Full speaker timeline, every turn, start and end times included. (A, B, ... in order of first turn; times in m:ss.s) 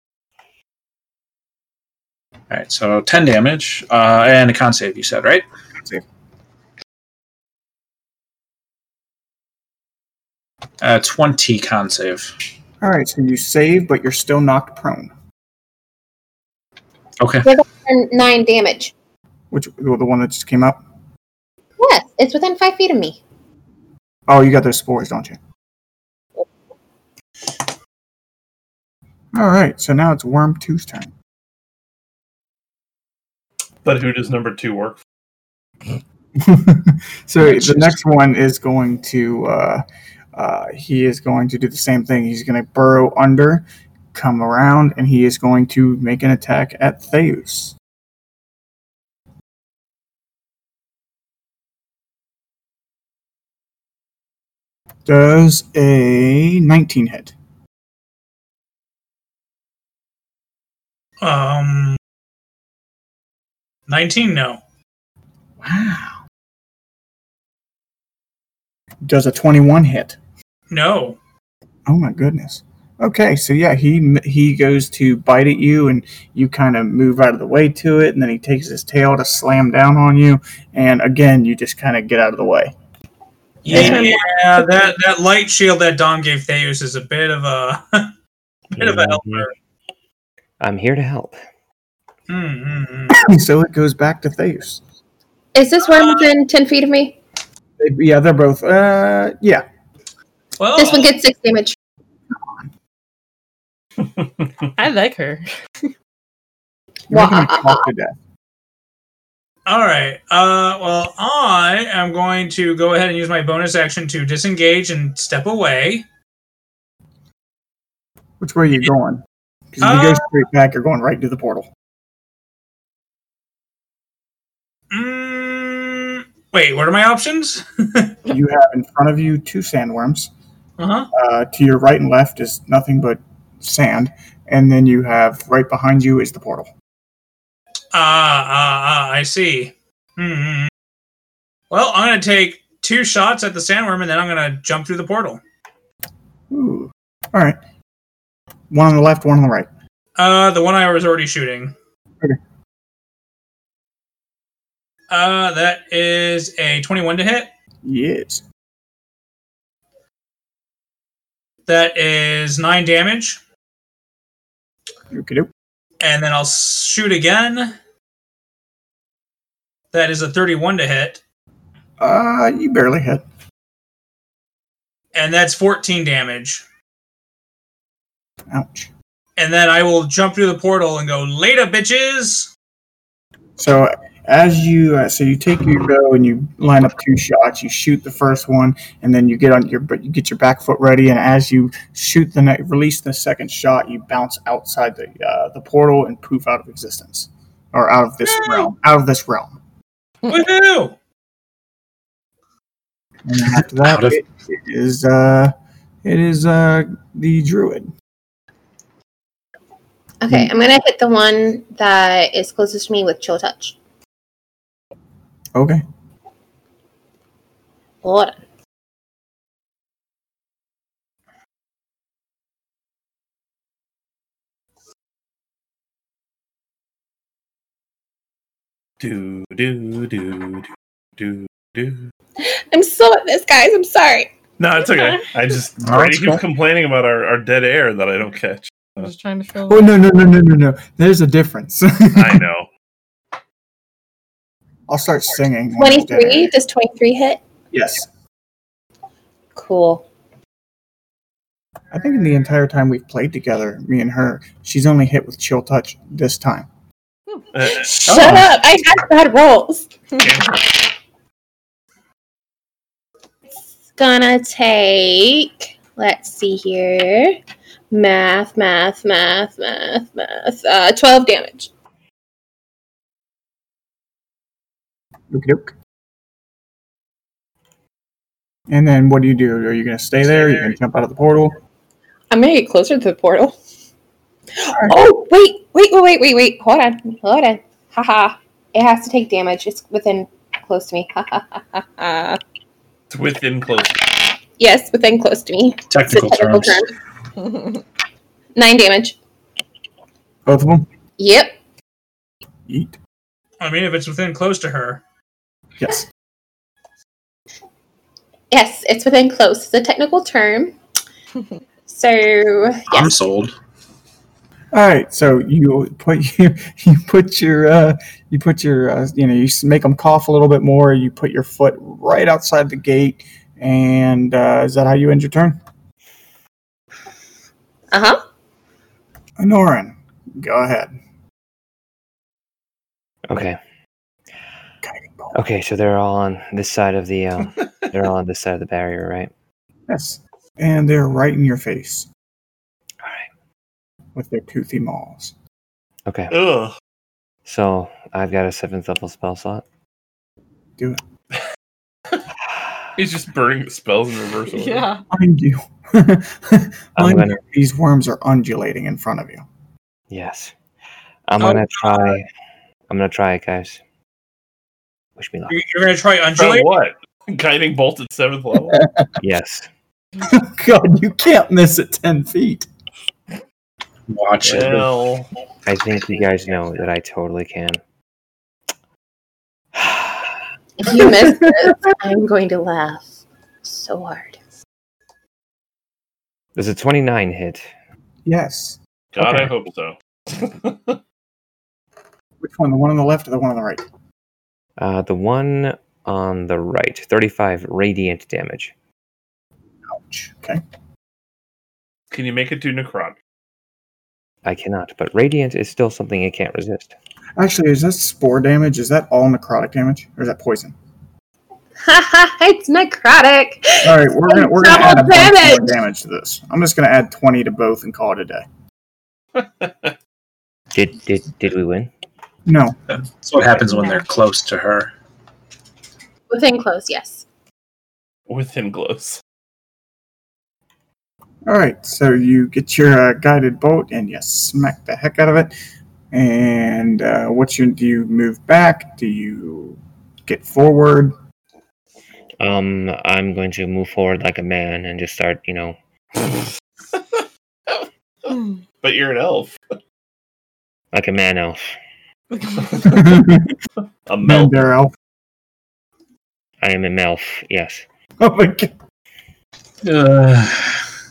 0:02.5-0:05.4 A
0:10.8-0:12.3 A
0:12.8-0:15.1 B
0:17.2-0:17.5 A
0:17.4-0:18.9 C
0:19.5-0:20.8 B
0:21.8-0:23.2 C
0:24.3-0:25.4 B
0:29.3-0:31.1 B
0:33.8-0:35.0 D
0:36.4-0:39.8 B
0:37.4-0:37.9 A
0:40.3-0:47.7 B
0:55.0-0:57.3 B
1:01.2-1:02.0 E
1:03.9-1:04.6 E
1:05.6-1:06.2 B
1:09.0-1:10.2 B
1:10.7-1:11.2 E
1:11.9-1:22.7 B
1:23.6-1:24.2 A
1:23.7-1:28.1 E
1:28.7-1:29.5 E
1:28.8-1:29.4 F
1:30.6-1:31.4 F
1:32.3-1:33.2 E
1:33.1-1:34.8 B
1:35.5-1:37.2 C
1:35.8-1:36.3 E
1:37.8-1:39.6 B
1:40.6-1:41.2 E
1:40.8-1:41.8 C
1:44.8-1:45.5 G
1:47.1-1:48.1 B
1:47.1-1:47.8 C
1:49.6-1:56.0 E
1:58.4-2:01.7 B
1:59.8-2:00.2 E
2:04.9-2:08.2 E
2:08.3-2:10.3 B
2:10.8-2:11.1 E
2:11.1-2:16.7 B
2:17.9-2:20.7 E
2:21.7-2:25.4 E
2:26.5-2:27.6 B
2:28.7-2:29.7 B
2:30.2-2:31.7 E
2:35.1-2:37.5 E
2:37.8-2:38.4 B
2:41.7-2:43.4 E
2:45.1-2:45.5 B
2:46.0-2:47.8 E
2:49.9-2:51.2 E
2:52.0-2:53.2 B
2:55.1-2:56.6 E
2:58.5-2:58.9 B
2:59.4-3:02.5 E
3:03.6-3:19.6 B
3:18.4-3:18.7 E
3:20.3-3:21.0 E
3:23.2-3:25.5 B
3:23.7-3:24.2 A
3:26.0-3:27.9 B
3:30.2-3:33.8 C
3:35.5-3:35.8 B
3:38.0-3:38.4 C
3:49.0-3:50.7 D
3:51.2-3:52.1 D
3:52.4-3:54.3 C
3:54.6-3:59.1 D
3:54.9-3:55.2 G
3:55.8-3:56.4 A
3:59.0-3:59.9 G
3:59.7-4:02.4 B
4:02.1-4:02.7 D
4:04.9-4:06.5 B
4:05.8-4:07.4 C
4:07.7-4:08.1 B
4:09.6-4:10.0 C
4:11.9-4:16.7 B
4:17.5-4:17.9 D
4:17.7-4:20.2 C
4:18.1-4:18.5 A
4:18.1-4:18.4 B
4:20.2-4:20.4 G
4:23.5-4:27.4 C
4:27.9-4:31.7 C
4:35.3-4:35.7 B
4:38.7-4:41.6 B
4:42.3-4:43.5 C
4:44.5-4:52.4 C
4:53.1-4:54.1 D
4:54.6-4:56.9 C
4:55.9-4:56.8 A
4:57.4-4:57.8 G
4:58.5-4:59.2 C
5:00.4-5:00.9 B
5:01.2-5:01.5 C
5:02.7-5:03.0 B
5:03.6-5:05.0 E
5:05.8-5:06.1 B
5:08.5-5:10.7 C
5:11.9-5:13.2 C
5:12.9-5:13.5 A
5:14.7-5:25.6 B
5:27.9-5:28.2 C
5:29.4-5:30.9 B
5:33.3-5:33.6 F
5:34.8-5:35.4 B
5:35.3-5:39.3 F
5:39.9-5:42.1 B
5:43.0-5:43.3 F
5:44.1-5:45.3 B
5:46.0-5:46.3 F
5:46.3-5:46.7 D
5:47.4-5:49.6 F
5:53.0-5:54.8 D
5:54.5-5:55.0 G
5:55.1-5:59.4 B
5:57.0-5:57.4 F
6:00.1-6:00.5 F
6:01.3-6:02.3 F
6:02.9-6:03.8 F
6:05.2-6:05.6 F
6:05.5-6:06.7 E
6:06.4-6:08.8 D
6:08.7-6:09.1 B
6:09.2-6:09.7 F
6:10.2-6:12.7 B
6:14.1-6:14.9 A
6:14.4-6:15.3 D
6:15.6-6:17.8 F
6:19.7-6:20.4 F
6:20.8-6:24.4 C
6:20.8-6:21.5 B
6:26.5-6:27.7 F
6:28.2-6:29.5 B
6:29.1-6:31.0 D
6:32.4-6:33.8 B
6:34.8-6:38.7 F
6:39.9-6:40.6 B
6:42.1-6:43.2 D
6:44.4-6:46.9 F
6:47.4-6:50.7 B
6:51.8-6:55.8 C
6:53.8-6:58.4 B
6:59.4-6:59.9 D
7:00.7-7:01.9 F
7:02.4-7:02.8 B
7:02.9-7:04.9 A
7:06.3-7:07.2 C
7:08.3-7:09.2 D
7:11.4-7:15.5 B
7:16.1-7:21.1 B
7:22.4-7:25.8 F
7:28.3-7:29.5 D
7:30.9-7:31.7 F
7:32.8-7:33.5 B
7:34.1-7:34.5 D
7:34.2-7:34.9 B
7:36.6-7:37.8 F
7:38.2-7:38.7 B
7:39.8-7:40.8 A